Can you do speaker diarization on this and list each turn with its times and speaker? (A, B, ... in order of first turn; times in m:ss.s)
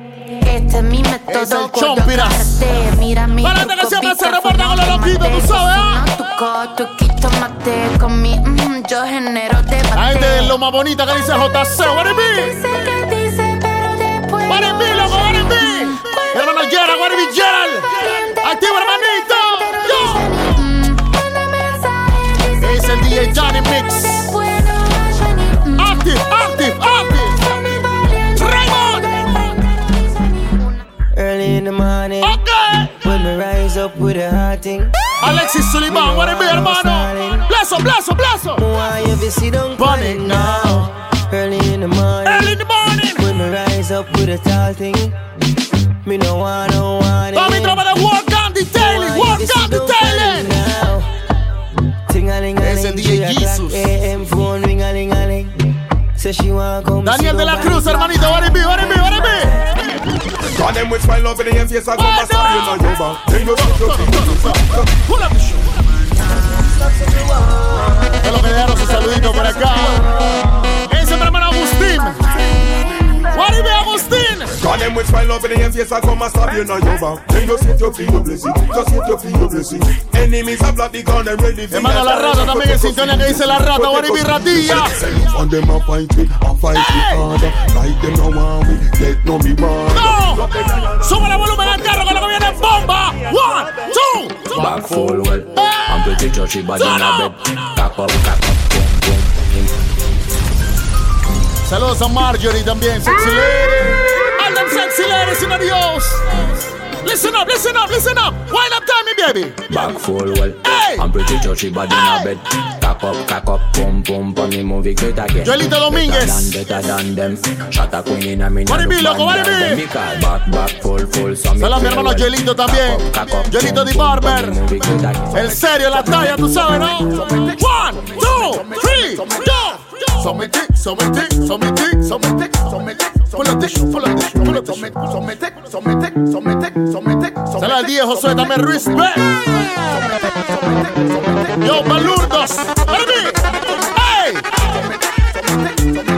0:00.4-0:10.6 A
0:01.3-0:02.8 B
0:03.4-0:06.0 B
0:10.0-0:12.6 B
0:12.4-0:15.9 A
0:14.5-0:20.3 B
0:20.4-0:22.7 A
0:22.6-0:24.4 B
0:24.3-0:25.7 A
0:25.8-0:29.4 B
0:31.2-0:32.3 C
0:32.2-0:32.9 B
0:33.0-0:34.9 C
0:35.2-0:38.7 B
0:35.9-0:37.5 C
0:38.6-0:42.6 C
0:39.8-0:40.9 B
0:42.2-0:43.3 B
0:43.2-0:45.1 C
0:46.1-0:47.8 C
0:47.3-0:50.6 B
0:49.0-0:51.1 C
0:52.1-0:55.5 C
0:52.6-0:54.0 B
0:56.2-0:58.0 C
0:57.0-0:59.6 B
1:00.5-1:04.8 D
1:01.9-1:05.9 B
1:08.2-1:10.1 B
1:10.9-1:12.3 B
1:13.3-1:14.6 B
1:14.6-1:30.4 D
1:21.7-1:25.0 B
1:26.7-1:27.3 B
1:29.9-1:34.9 B
1:34.5-1:39.7 E
1:35.6-1:36.2 B
1:36.8-1:37.4 B
1:41.6-1:46.5 B
1:47.0-1:50.0 B
1:49.7-2:05.5 E
1:50.6-1:51.1 B
1:51.9-1:52.3 B
1:55.4-1:56.6 B
1:58.7-1:59.9 B
2:01.6-2:04.6 B
2:05.3-2:15.2 B
2:17.6-2:19.8 B
2:21.6-2:24.7 B